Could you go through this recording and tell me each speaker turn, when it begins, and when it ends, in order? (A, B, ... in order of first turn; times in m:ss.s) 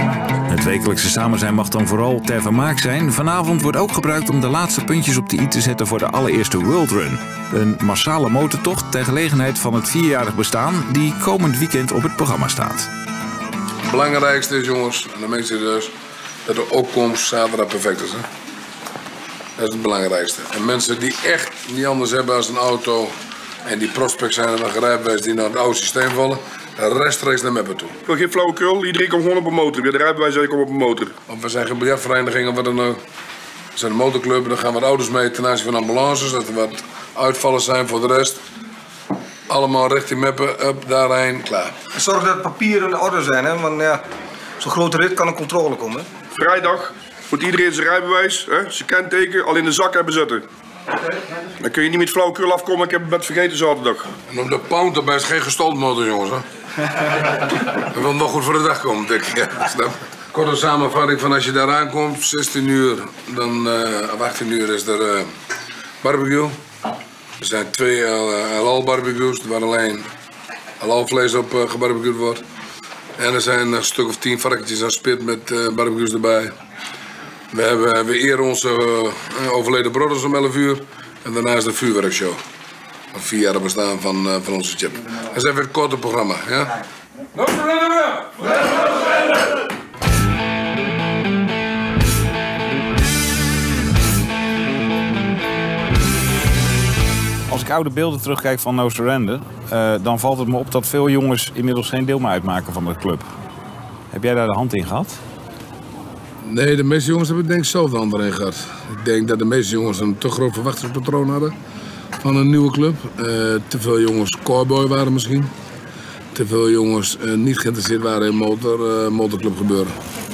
0:00.5-0:12.9 A
0:13.9-0:15.9 B
0:16.4-0:18.2 B
0:19.6-0:28.0 B
0:28.0-0:31.1 C
0:31.3-0:33.0 B
0:33.7-0:38.4 B
0:39.5-0:41.8 B
0:41.9-0:44.0 D
0:44.6-0:46.1 D
0:46.3-0:50.4 C
0:51.6-0:54.1 C
0:54.3-0:56.4 B
0:57.9-1:05.3 B
1:06.0-1:06.6 B
1:07.4-1:10.1 B
1:10.8-1:12.4 B
1:13.2-1:16.5 B
1:17.5-1:22.4 B
1:23.1-1:26.7 B
1:27.3-1:28.4 B
1:37.5-1:43.2 E
1:44.1-1:45.2 E
1:46.4-1:51.5 B
1:52.2-1:55.5 B
1:56.3-2:00.0 B